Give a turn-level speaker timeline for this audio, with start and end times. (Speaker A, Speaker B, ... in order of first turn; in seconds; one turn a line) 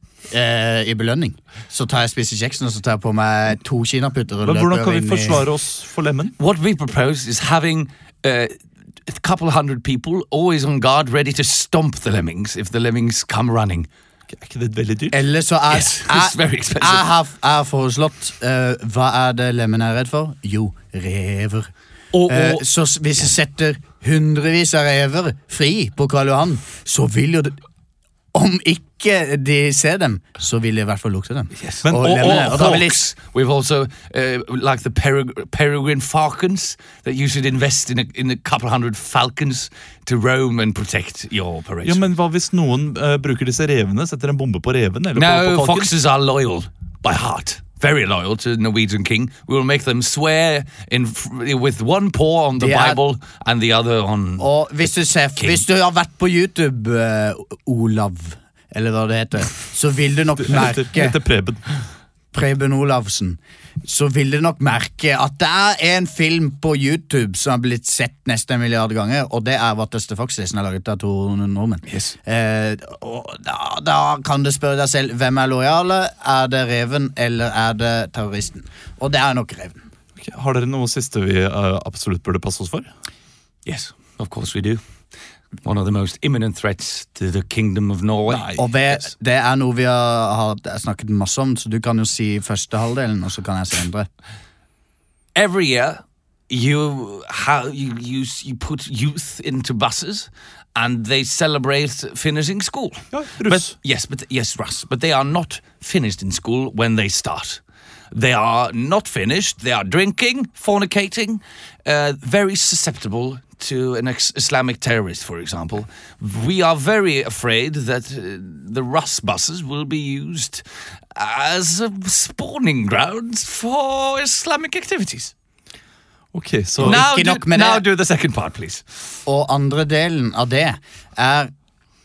Speaker A: 0.3-5.5
Speaker B: 4.4-6.4
Speaker C: 6.4-13.9
Speaker B: 14.3-15.2
Speaker A: 15.1-21.7
Speaker C: 15.7-17.1
Speaker C: 22.1-22.6
Speaker A: 22.3-27.6
Speaker A: 28.3-33.0
Speaker C: 31.6-42.1
Speaker B: 31.8-33.0
Speaker B: 41.8-45.9
Speaker C: 45.1-54.5
Speaker A: 52.6-53.0
Speaker A: 54.4-61.2
Speaker C: 55.4-55.6
Speaker B: 60.4-61.6
Speaker A: 62.3-79.8
Speaker C: 71.9-72.1
Speaker B: 80.2-82.9
Speaker C: 83.7-84.8
Speaker C: 85.6-88.5
Speaker B: 88.3-88.7
Speaker A: 88.6-94.1
Speaker C: 95.3-107.6
Speaker B: 103.1-103.8
Speaker C: 108.1-125.3
Speaker B: 126.3-127.0
Speaker A: 126.8-127.8
Speaker C: 126.8-128.8
Speaker A: 129.3-131.5